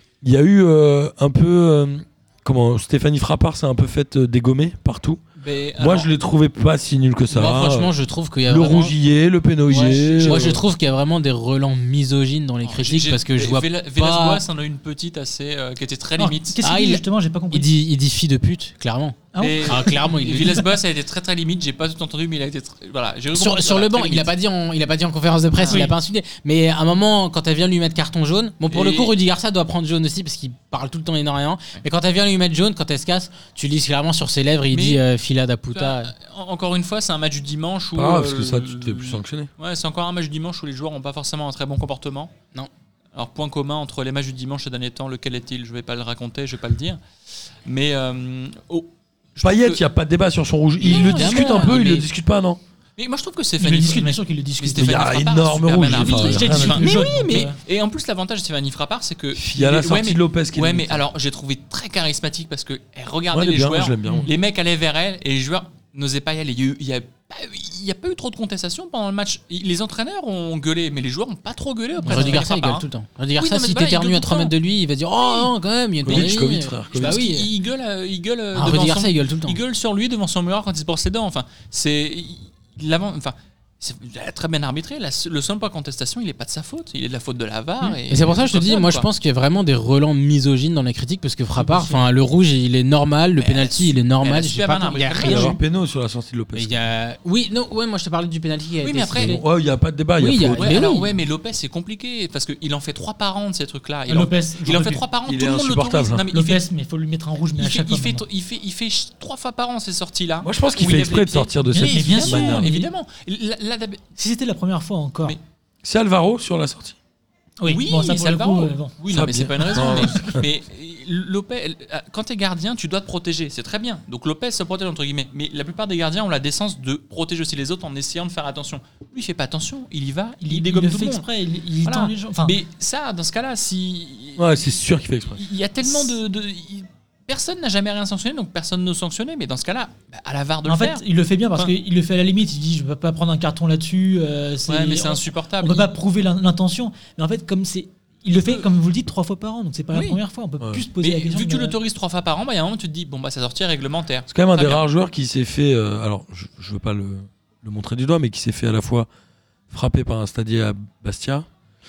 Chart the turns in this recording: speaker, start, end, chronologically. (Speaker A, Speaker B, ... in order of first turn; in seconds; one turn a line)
Speaker A: 0.2-5.2
Speaker B: 5.4-6.1
Speaker A: 5.8-7.9
Speaker C: 7.3-8.9
Speaker A: 8.4-10.6
Speaker B: 9.7-10.6
Speaker C: 9.7-14.4
Speaker B: 12.6-16.6
Speaker D: 16.2-17.7
Speaker C: 16.6-20.7
Speaker D: 19.3-20.6
Speaker B: 19.4-24.3
Speaker C: 23.3-36.1
Speaker B: 25.6-25.9
Speaker D: 25.7-25.9
Speaker B: 28.7-29.1
Speaker B: 34.7-35.0
Speaker B: 35.7-42.3
Speaker A: 38.0-39.5
Speaker B: 43.1-47.0
Speaker B: 47.6-49.8
Speaker A: 49.4-52.6
Speaker C: 50.8-52.0
Speaker B: 50.8-52.0
Speaker B: 53.0-74.5
Speaker D: 53.6-55.0
Speaker A: 54.8-56.9
Speaker D: 55.9-57.6
Speaker C: 56.8-57.5
Speaker A: 59.3-61.1
Speaker A: 63.3-64.3
Speaker D: 72.0-72.4
Speaker C: 72.1-77.5
Speaker B: 75.2-75.5
Speaker B: 76.0-76.4
Speaker A: 76.0-77.2
Speaker B: 76.9-89.1
Speaker C: 78.5-79.6
Speaker C: 87.8-95.6
Speaker D: 91.6-92.1
Speaker B: 93.4-95.6
Speaker A: 95.2-96.7
Speaker C: 96.5-99.4
Speaker B: 98.8-99.4
Speaker A: 99.2-100.8
Speaker C: 100.2-101.1
Speaker B: 100.5-106.6
Speaker D: 104.1-105.0
Speaker A: 105.2-106.3
Speaker D: 106.3-108.2
Speaker B: 107.6-114.0
Speaker A: 110.4-112.7
Speaker D: 111.7-112.9
Speaker D: 114.2-115.4
Speaker A: 115.8-117.0
Speaker D: 117.6-119.0
Speaker B: 117.7-131.3
Speaker A: 119.1-120.5
Speaker D: 119.6-120.3
Speaker D: 130.4-132.6
Speaker B: 131.8-134.7
Speaker A: 134.4-135.4
Speaker B: 135.4-141.0
Speaker D: 140.7-151.8
Speaker B: 144.7-145.9
Speaker B: 148.3-148.7
Speaker B: 149.9-150.2
Speaker B: 151.0-154.8
Speaker A: 154.3-159.1
Speaker A: 159.7-161.5